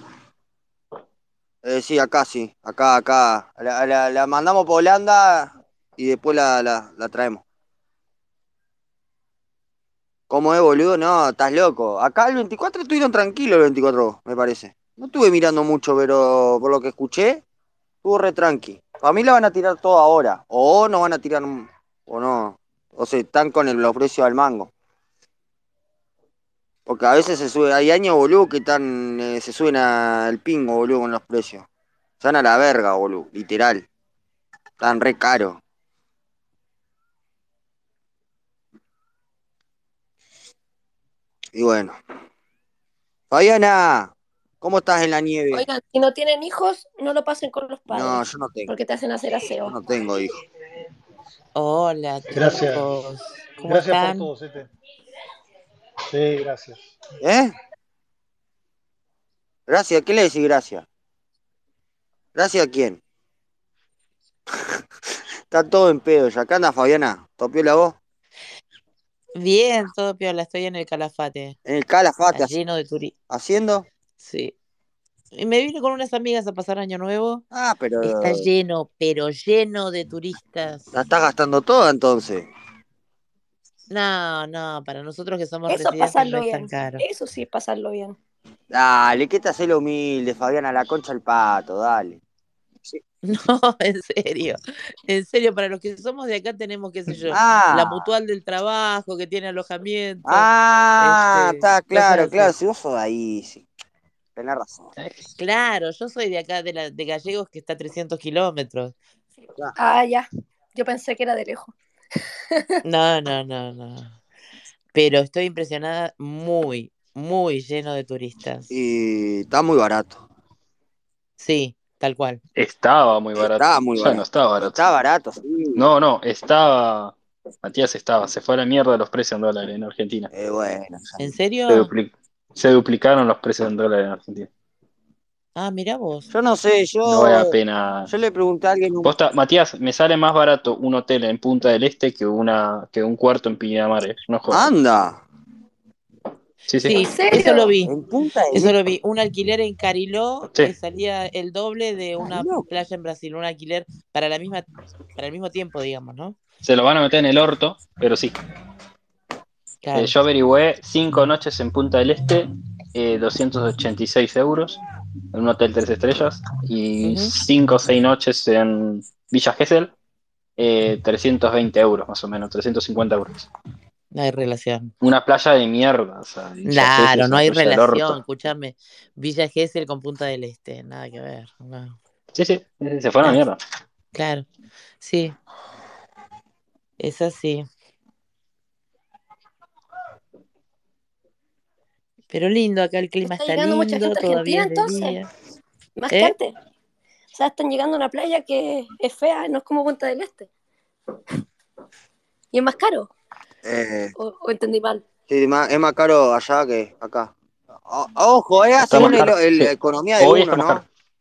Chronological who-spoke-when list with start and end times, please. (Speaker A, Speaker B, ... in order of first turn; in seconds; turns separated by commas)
Speaker A: 1.6-7.4, Speaker A: 10.3-17.4, Speaker A: 18.0-24.7, Speaker A: 26.9-31.6, Speaker A: 32.2-33.8, Speaker A: 34.8-35.6, Speaker A: 41.5-42.0, Speaker A: 43.3-45.6, Speaker B: 45.5-49.7, Speaker A: 47.9-48.7, Speaker A: 49.6-50.4, Speaker C: 51.5-54.3, Speaker D: 52.3-52.9, Speaker D: 53.6-54.7, Speaker D: 56.1-56.8, Speaker A: 57.2-57.5, Speaker A: 59.7-60.8, Speaker A: 62.3-63.0, Speaker A: 65.5-68.0, Speaker C: 69.3-71.5, Speaker A: 71.7-72.5, Speaker C: 72.3-73.1, Speaker A: 73.3-73.8, Speaker C: 74.2-74.5, Speaker C: 75.3-77.4, Speaker A: 77.5-78.5, Speaker C: 78.0-80.8, Speaker A: 80.9-82.5, Speaker C: 83.9-87.0, Speaker B: 85.7-88.2, Speaker A: 88.7-92.2, Speaker C: 93.2-100.5, Speaker A: 97.2-98.1, Speaker A: 100.2-103.7, Speaker C: 101.0-102.5, Speaker A: 104.3-104.9, Speaker E: 105.0-105.2, Speaker C: 105.4-108.9, Speaker B: 109.8-111.7, Speaker C: 112.8-114.1, Speaker C: 114.9-118.7, Speaker A: 118.7-120.2, Speaker C: 121.4-122.4, Speaker E: 122.5-124.8, Speaker A: 123.4-125.8, Speaker E: 125.8-130.3, Speaker A: 130.3-131.2, Speaker C: 131.2-131.9, Speaker E: 131.7-134.5, Speaker C: 135.6-136.3, Speaker A: 136.3-137.5, Speaker E: 137.1-138.1, Speaker A: 138.1-139.1, Speaker E: 139.0-144.7, Speaker A: 144.5-145.2, Speaker E: 146.7-147.0, Speaker C: 146.8-147.9, Speaker B: 147.0-147.7, Speaker A: 147.8-148.7, Speaker C: 148.5-156.3, Speaker A: 152.2-152.7, Speaker E: 156.6-158.3, Speaker C: 159.8-160.1, Speaker E: 159.9-164.8, Speaker E: 165.3-169.9, Speaker C: 167.0-167.3, Speaker E: 170.6-173.5, Speaker C: 174.1-174.9, Speaker E: 175.0-178.2, Speaker C: 176.6-182.0, Speaker E: 182.3-183.6, Speaker C: 184.1-184.4, Speaker C: 185.0-185.3, Speaker C: 187.0-187.7, Speaker C: 192.3-195.3, Speaker B: 193.2-195.2, Speaker B: 196.0-196.5, Speaker C: 196.1-196.3, Speaker B: 197.3-200.5, Speaker B: 202.5-203.1, Speaker A: 203.6-204.1, Speaker B: 204.2-205.0, Speaker A: 205.3-207.3, Speaker A: 207.9-210.8, Speaker E: 208.8-210.8